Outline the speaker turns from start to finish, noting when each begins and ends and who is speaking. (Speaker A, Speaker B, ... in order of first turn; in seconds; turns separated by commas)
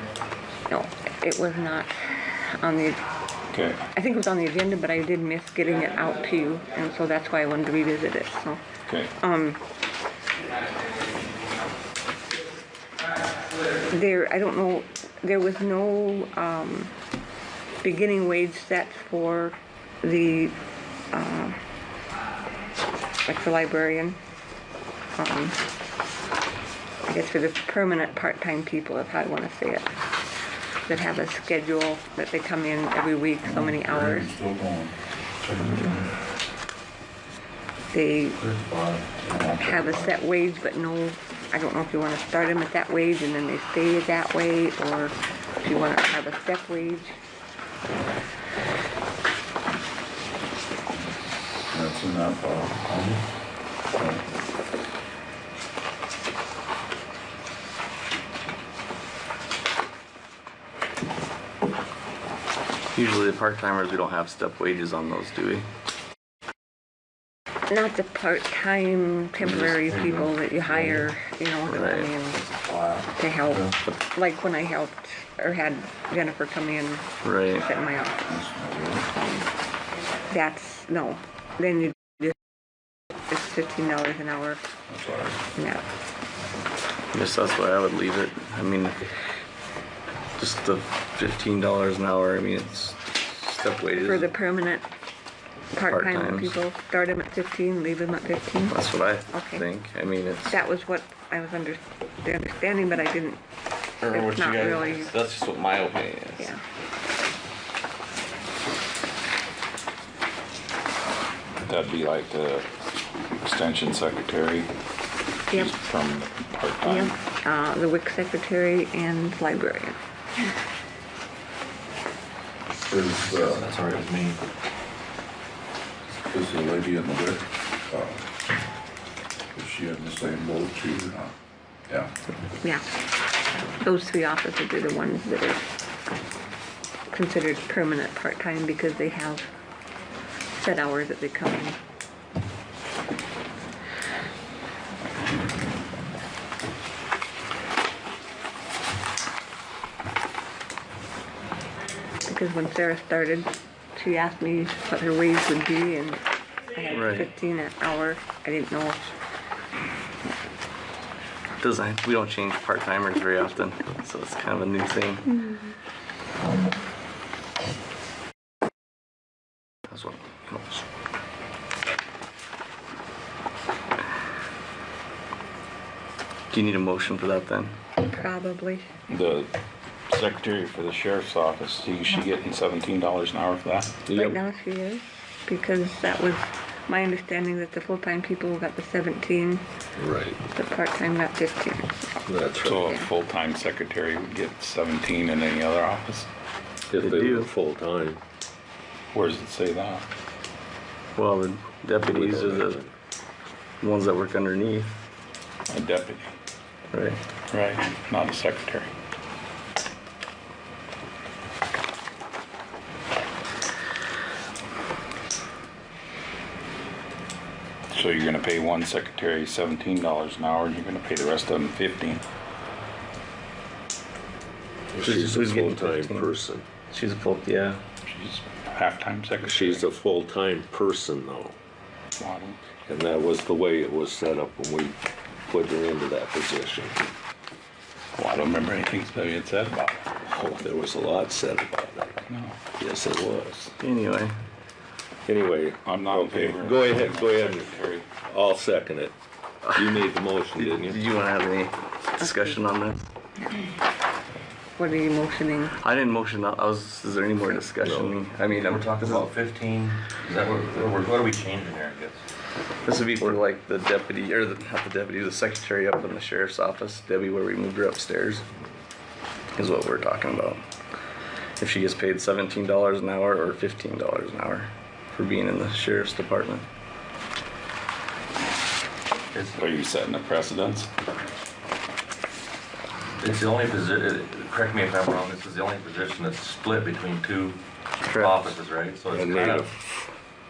Speaker A: 0.7-3.0, Speaker B: 3.5-3.8, Speaker A: 4.0-8.6, Speaker B: 8.9-9.1, Speaker A: 9.2-9.6, Speaker A: 13.9-16.9, Speaker A: 17.8-20.6, Speaker A: 21.1-21.6, Speaker A: 23.3-24.2, Speaker A: 25.2-25.6, Speaker A: 27.1-30.0, Speaker A: 30.9-34.4, Speaker C: 33.4-35.0, Speaker D: 35.5-36.0, Speaker A: 37.9-38.4, Speaker D: 38.4-39.9, Speaker C: 39.3-39.9, Speaker A: 39.6-47.1, Speaker B: 51.7-52.5, Speaker C: 51.8-52.9, Speaker B: 54.0-54.2, Speaker E: 63.0-65.7, Speaker A: 67.7-72.5, Speaker D: 69.4-71.1, Speaker E: 71.7-72.1, Speaker D: 72.5-73.7, Speaker A: 73.2-78.2, Speaker E: 77.2-77.7, Speaker C: 78.3-79.0, Speaker A: 79.1-79.5, Speaker A: 80.3-82.3, Speaker A: 83.3-84.6, Speaker C: 84.9-85.4, Speaker A: 85.5-85.8, Speaker E: 87.1-89.0, Speaker E: 90.4-94.3, Speaker A: 94.0-94.9, Speaker A: 95.7-99.7, Speaker E: 95.9-96.6, Speaker E: 98.7-100.6, Speaker A: 100.5-103.4, Speaker D: 104.0-106.0, Speaker A: 104.1-105.1, Speaker E: 105.1-106.5, Speaker B: 111.7-112.7, Speaker B: 113.4-114.7, Speaker B: 115.5-117.1, Speaker A: 116.8-120.0, Speaker C: 122.8-123.7, Speaker D: 123.2-124.4, Speaker C: 126.3-128.2, Speaker C: 129.6-131.3, Speaker A: 133.8-135.7, Speaker A: 137.1-139.5, Speaker A: 140.6-141.8, Speaker A: 152.3-156.2, Speaker A: 156.7-159.1, Speaker E: 156.9-157.3, Speaker E: 161.6-165.4, Speaker E: 169.9-170.8, Speaker E: 176.5-177.8, Speaker A: 178.0-178.9, Speaker B: 179.1-179.5, Speaker B: 180.1-183.9, Speaker F: 184.1-184.4, Speaker A: 184.1-189.6, Speaker F: 190.0-190.4, Speaker A: 190.5-192.1, Speaker F: 192.3-192.9, Speaker B: 192.6-196.3, Speaker F: 196.9-198.2, Speaker E: 197.0-197.5, Speaker B: 199.1-200.1, Speaker E: 201.2-202.8, Speaker F: 202.0-202.9, Speaker E: 203.8-204.9, Speaker B: 205.7-206.3, Speaker E: 206.9-207.2, Speaker B: 207.5-208.9, Speaker B: 217.9-222.2, Speaker F: 224.9-226.7, Speaker E: 225.0-226.3, Speaker E: 226.9-227.8, Speaker B: 228.1-229.9, Speaker F: 229.4-231.6, Speaker B: 232.2-232.6, Speaker F: 232.8-237.0, Speaker B: 238.2-240.1, Speaker F: 240.2-242.2, Speaker B: 242.3-242.6, Speaker F: 242.8-243.7, Speaker E: 243.8-244.3, Speaker F: 245.3-251.0, Speaker B: 245.8-248.1, Speaker E: 250.6-253.1, Speaker A: 252.2-252.6, Speaker A: 254.8-255.8, Speaker E: 255.8-259.3, Speaker F: 257.8-258.2, Speaker D: 258.5-262.2, Speaker E: 262.9-268.5, Speaker E: 269.6-270.6, Speaker E: 271.6-276.7, Speaker D: 279.3-279.6, Speaker B: 279.6-280.9, Speaker D: 283.2-289.7, Speaker E: 288.1-288.5, Speaker F: 289.1-290.1